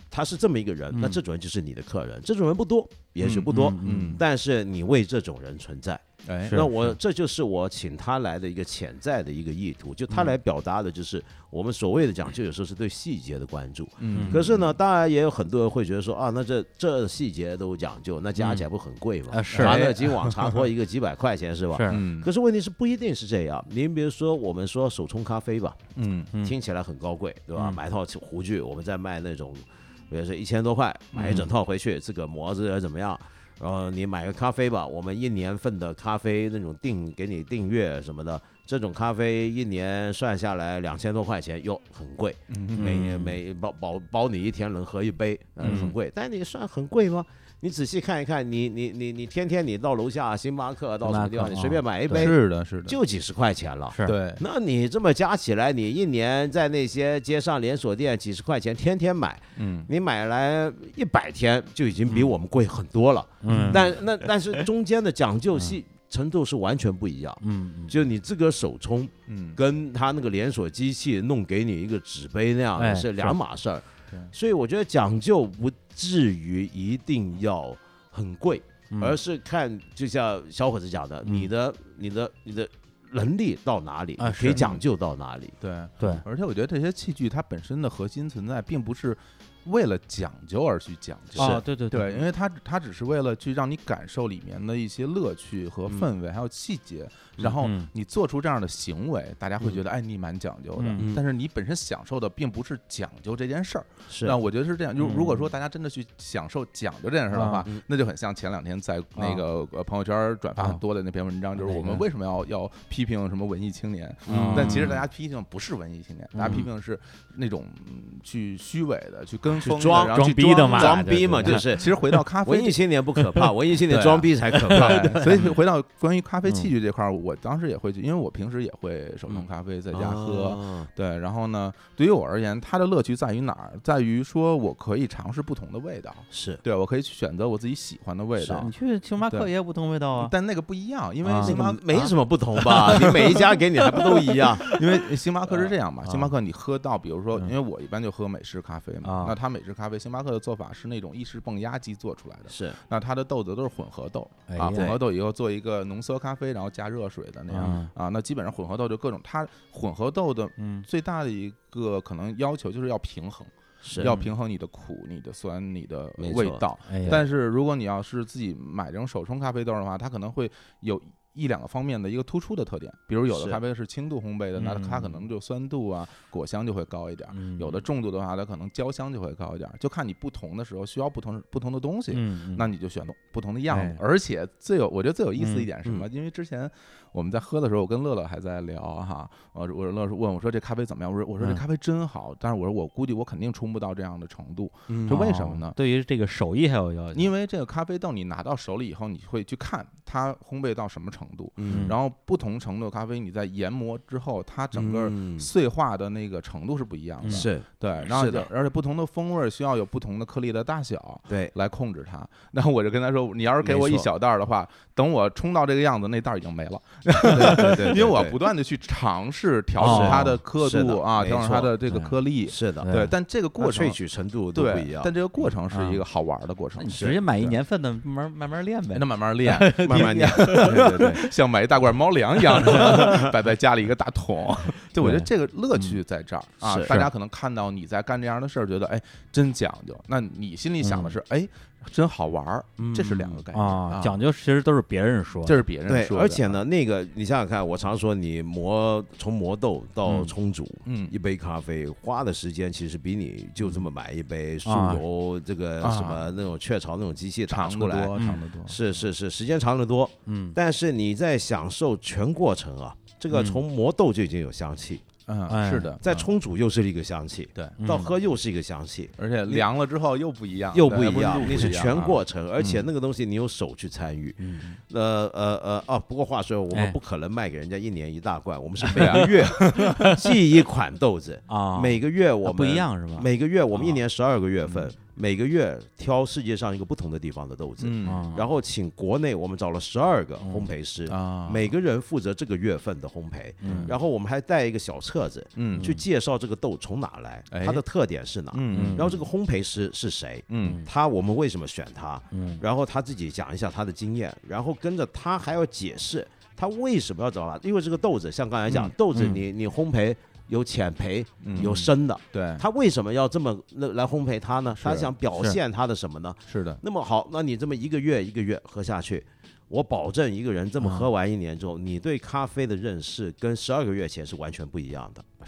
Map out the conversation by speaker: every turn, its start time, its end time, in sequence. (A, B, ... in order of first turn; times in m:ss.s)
0:00.1-0:25.8 A
0:00.9-0:01.2 B
0:03.2-0:04.2 C
0:03.5-0:04.2 B
0:06.2-0:06.7 C
0:06.5-0:06.9 B
0:14.0-0:14.7 C
0:14.1-0:14.4 B
0:19.3-0:19.8 B
0:19.5-0:20.6 C
0:21.7-0:22.0 B
0:21.9-0:22.3 C
0:26.0-0:26.3 C
0:26.4-1:25.6 A
0:31.1-0:31.5 B
0:42.5-0:43.0 C
0:42.7-0:43.3 B
0:45.6-0:45.9 B
0:45.6-0:45.9 C
0:51.0-0:52.3 B
0:52.1-0:53.0 C
0:53.9-0:54.2 B
0:54.0-0:54.4 C
0:59.6-0:59.9 C
1:03.4-1:04.6 B
1:03.5-1:03.8 C
1:07.4-1:07.9 B
1:09.3-1:09.6 C
1:12.8-1:13.3 B
1:18.9-1:19.2 B
1:21.2-1:21.5 B
1:24.2-1:24.8 B
1:25.6-2:02.8 C
1:31.3-1:31.6 A
1:31.4-1:32.2 B
1:37.6-1:37.9 B
1:40.8-1:41.1 B
1:44.1-1:44.4 A
1:45.0-1:45.5 B
1:47.3-1:47.7 B
1:49.2-1:49.4 B
1:51.6-1:52.0 B
1:54.2-1:55.0 A
1:54.3-1:55.0 B
1:56.3-1:56.7 B
1:59.6-2:05.5 A
1:59.9-2:02.1 B
2:03.2-2:03.5 B
2:03.9-2:18.7 C
2:04.7-2:05.5 B
2:09.3-2:10.9 A
2:16.3-2:16.6 A
2:18.4-2:18.7 A
2:18.6-2:20.3 B
2:19.2-2:19.5 C
2:20.2-2:22.1 C
2:21.2-2:24.8 B
2:21.4-2:24.7 A
2:22.6-2:23.4 C
2:24.6-3:15.8 C
2:25.5-2:26.3 B
2:29.0-2:29.4 B
2:32.5-2:32.8 A
2:34.5-2:34.9 B
2:37.5-2:37.9 B
2:40.6-2:40.8 B
2:43.8-2:44.1 A
2:44.0-2:44.3 B
2:46.2-2:47.2 A
2:46.8-2:47.2 B
2:53.3-2:53.6 A
2:54.6-2:55.2 B
2:57.3-2:57.8 B
3:02.1-3:02.6 B
3:03.7-3:04.0 B
3:05.4-3:05.7 B
3:14.9-3:15.3 A
3:15.1-3:17.3 B
3:17.1-3:44.0 C
3:21.6-3:21.9 A
3:21.7-3:22.0 B
3:24.7-3:25.5 A
3:27.2-3:27.5 B
3:27.3-3:28.5 A
3:33.6-3:34.1 A
3:37.3-3:38.4 A
3:37.4-3:38.1 B
3:39.8-3:40.4 B
3:39.8-3:41.7 A
3:41.9-3:42.2 B
3:42.5-3:42.9 A
3:42.8-3:43.1 B
3:43.6-3:45.1 A
3:44.5-3:47.5 C
3:45.7-3:46.0 B
3:46.8-3:51.2 B
3:46.9-3:47.2 A
3:48.9-4:04.1 C
3:49.8-3:51.2 A
3:52.5-3:53.2 B
3:52.6-3:53.3 A
3:55.0-3:56.0 B
3:56.6-3:56.9 A
4:00.8-4:01.1 B
4:02.8-4:03.4 A
4:03.5-4:05.6 B
4:05.4-4:06.6 C
4:05.9-4:25.0 A
4:10.8-4:11.1 C
4:14.6-4:15.0 B
4:15.8-4:16.2 C
4:17.5-4:18.8 C
4:18.2-4:18.4 B
4:20.2-4:20.6 B
4:23.3-4:23.6 B
4:25.3-4:26.3 C
4:25.5-4:26.0 B
4:26.0-4:29.6 A
4:27.8-4:28.1 B
4:29.2-4:32.8 C
4:30.7-5:25.3 A
4:34.4-4:34.8 B
4:38.9-4:40.2 B
4:38.9-4:40.1 C
4:41.5-4:44.0 B
4:47.8-4:48.2 C
4:48.0-4:48.5 B
4:50.4-4:50.7 B
4:51.1-4:51.7 C
4:53.6-4:53.9 B
4:53.7-4:53.9 C
4:55.6-4:55.9 C
4:55.7-4:56.0 B
4:57.5-4:57.8 C
4:58.5-4:59.2 C
4:58.7-4:59.2 B
5:00.5-5:00.8 C
5:00.6-5:00.9 B
5:02.3-5:02.6 B
5:09.1-5:09.4 B
5:11.4-5:11.8 C
5:11.6-5:11.8 B
5:12.3-5:12.6 C
5:14.8-5:15.1 C
5:16.5-5:16.8 C
5:20.8-5:21.1 B